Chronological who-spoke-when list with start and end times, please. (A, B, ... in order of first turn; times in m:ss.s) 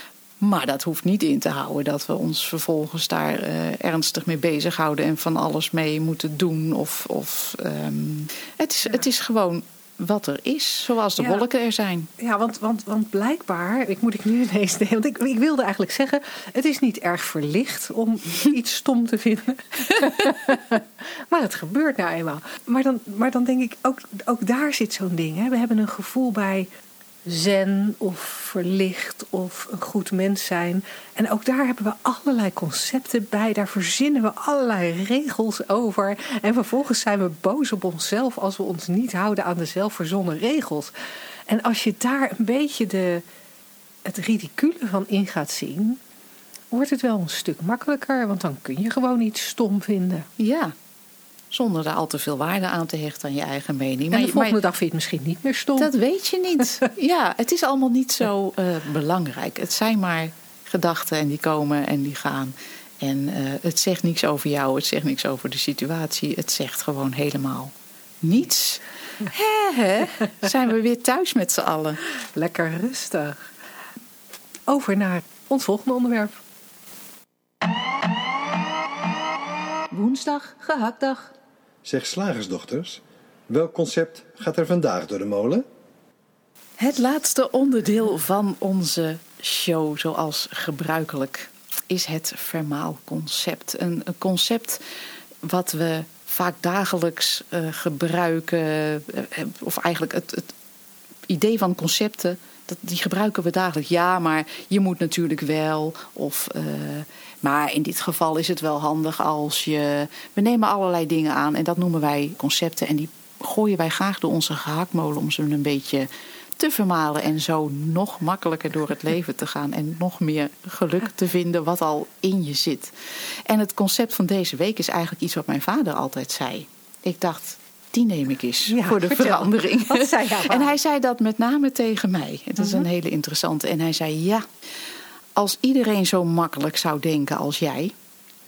0:00.4-0:12.1 A
0:12.2-0:26.7 B
0:27.2-0:40.9 B
0:41.5-0:43.2 B
0:44.0-0:46.0 B
0:46.7-0:50.3 B
0:50.4-0:50.7 A
0:51.5-0:54.6 A
0:54.1-0:55.9 B
0:55.8-1:12.0 A
1:12.3-1:13.4 B
1:14.7-1:16.4 B
1:19.9-1:21.3 A
1:21.8-1:25.6 C
1:26.8-1:34.8 A
1:35.4-1:40.5 A
1:41.3-2:02.9 A
2:03.5-2:14.4 A
2:08.7-2:10.7 B
2:15.3-2:17.9 A